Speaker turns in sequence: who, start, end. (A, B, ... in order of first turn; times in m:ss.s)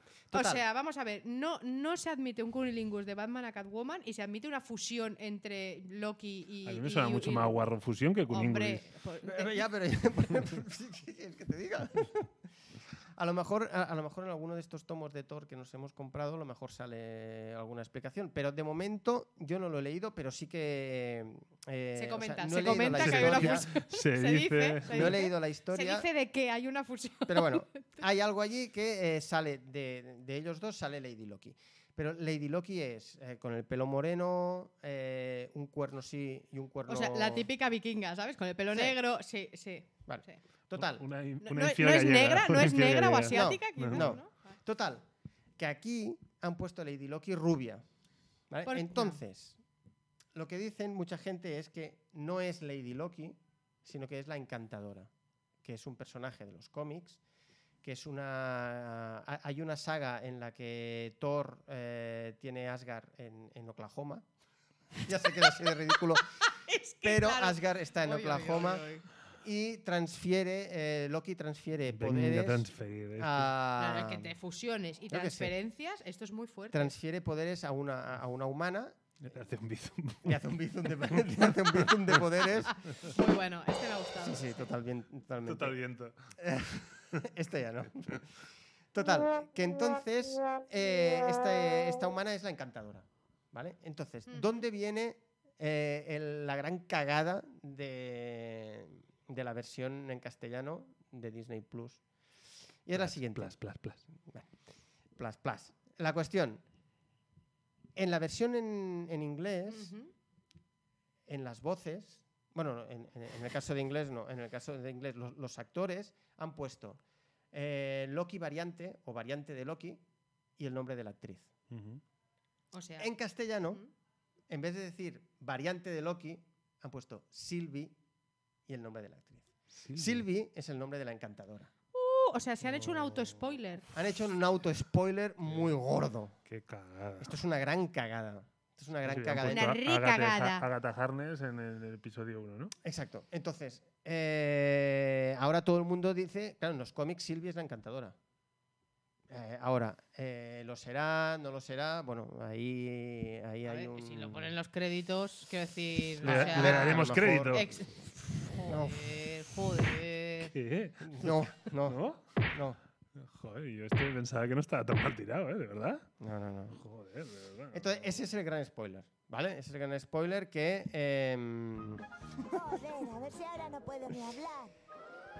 0:00.3-0:00.6 A
0:00.3-0:07.6 B
0:06.6-0:08.8 C
0:08.3-0:09.7 B
0:09.2-0:12.3 A
0:13.1-0:23.7 A
0:21.9-0:28.0 B
0:22.7-0:25.2 C
0:24.9-0:26.1 A
0:27.3-0:37.5 A
0:36.9-0:40.4 B
0:38.7-0:39.0 A
0:40.1-0:41.0 A
0:40.7-0:44.1 C
0:41.4-0:44.5 B
0:43.3-0:45.0 A
0:45.6-0:47.8 A
0:48.5-0:49.6 A
0:48.6-0:49.2 B
0:50.3-0:55.1 A
0:55.6-0:57.2 A
0:57.8-1:04.2 A
1:05.0-1:06.4 A
1:06.4-1:09.0 B
1:07.0-1:08.9 A
1:09.4-1:14.3 A
1:11.9-1:13.5 C
1:13.8-1:16.9 B
1:15.1-1:15.5 A
1:16.7-1:19.2 A
1:19.2-1:20.4 C
1:20.2-1:23.0 A
1:21.3-1:22.2 C
1:22.7-1:24.7 B
1:24.2-1:25.8 A
1:25.4-1:26.3 C
1:26.4-1:28.4 A
1:28.9-1:42.0 A
1:34.3-1:34.6 B
1:42.8-1:43.5 A
1:42.9-1:44.0 C
1:45.2-1:46.6 A
1:48.0-1:49.9 A
1:49.7-1:50.1 B
1:51.3-1:57.0 A
1:57.5-2:00.0 A
2:00.6-2:01.5 A
2:01.7-2:02.0 C
2:02.7-2:03.1 B
2:03.0-2:03.8 A
2:04.5-2:08.0 A
2:08.7-2:11.7 A
2:09.8-2:10.2 C
2:11.9-2:13.9 B
2:12.8-2:13.3 C
2:13.9-2:16.4 A
2:16.5-2:17.4 C
2:17.2-2:19.7 A
2:19.0-2:22.7 C
2:19.5-2:20.6 B
2:22.8-2:28.2 A
2:29.3-2:34.5 A
2:33.6-2:40.5 B
2:36.2-2:37.7 A
2:36.2-2:37.7 C
2:38.7-2:39.0 A
2:40.4-2:42.4 C
2:41.0-2:42.8 A
2:43.2-2:46.1 C
2:46.2-2:46.8 A
2:46.7-2:48.1 C
2:47.7-2:52.6 A
2:52.5-2:54.7 D